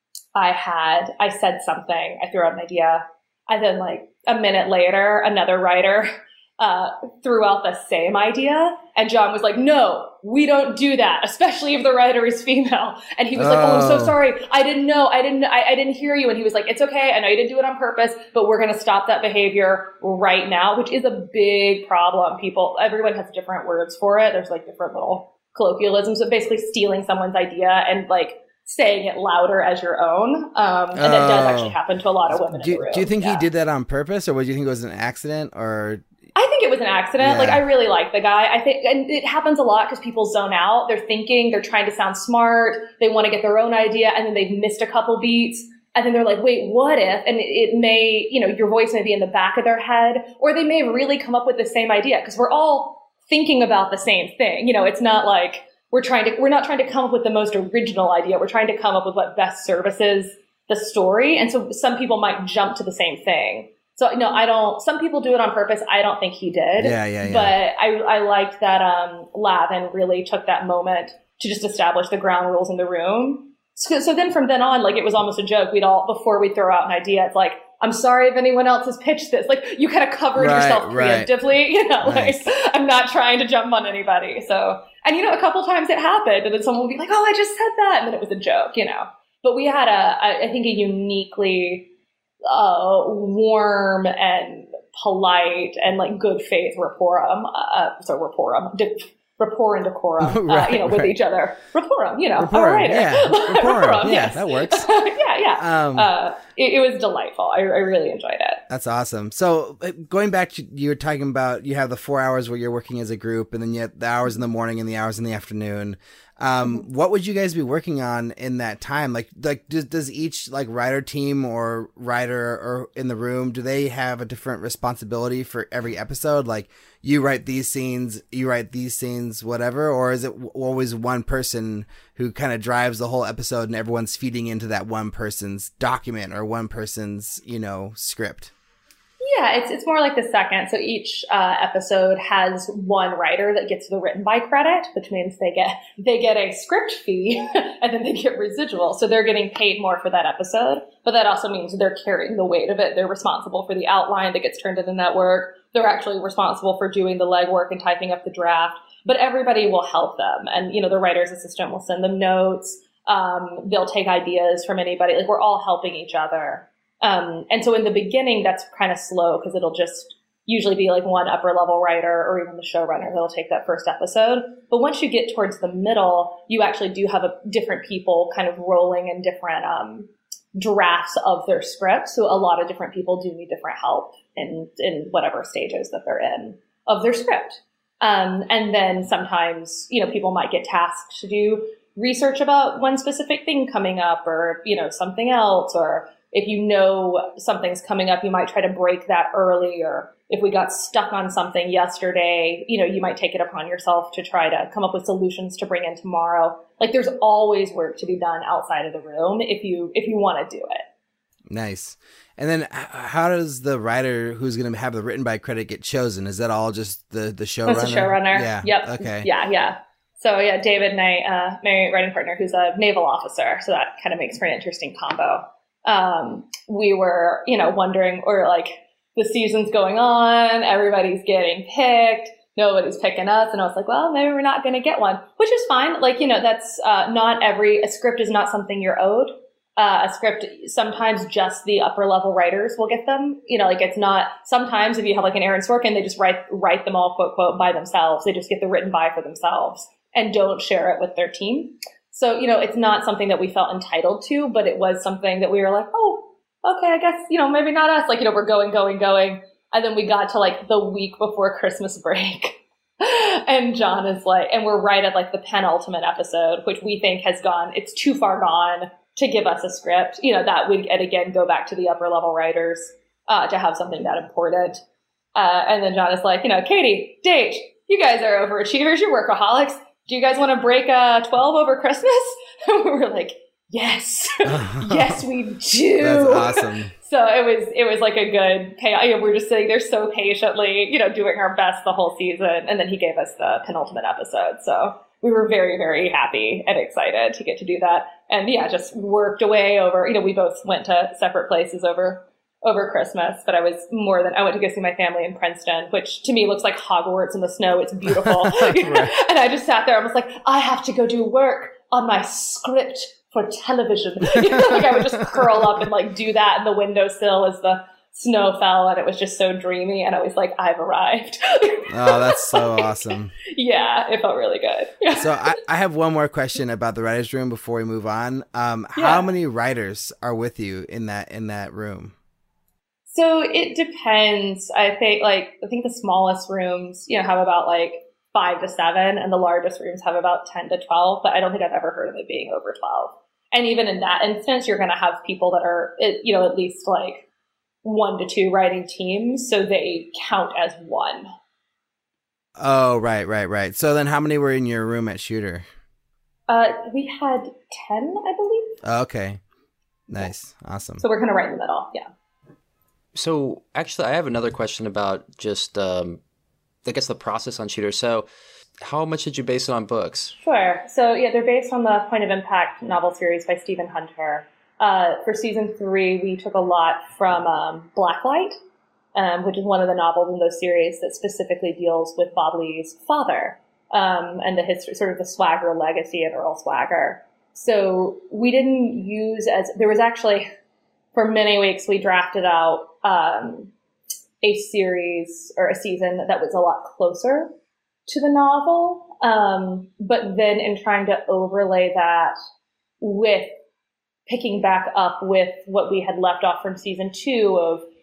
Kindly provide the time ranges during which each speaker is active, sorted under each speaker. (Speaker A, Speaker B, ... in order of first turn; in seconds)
Speaker A: 0.3-6.1, 6.6-33.5, 36.4-91.9, 92.5-108.6, 139.2-210.8, 217.7-274.8, 275.4-322.9, 323.5-325.6, 329.0-329.3, 333.1-347.3, 347.8-351.3, 356.5-358.8, 361.0-362.1, 370.4-378.6, 379.1-390.5, 391.1-393.7, 394.4-397.5, 398.1-402.4, 403.0-403.5, 404.3-407.9
Speaker B: 13.4-14.2, 30.9-31.8, 32.3-36.0, 37.2-37.6, 66.8-67.6, 80.4-81.3, 82.0-82.5, 100.2-101.2, 102.4-104.9, 105.6-106.1, 108.7-138.5, 211.5-219.3, 284.5-285.2, 286.0-286.9, 308.2-309.1, 321.9-323.3, 325.2-332.1, 352.6-355.6, 358.8-359.4, 360.1-361.0
Speaker C: 363.1-366.2, 366.9-368.3, 368.8-370.4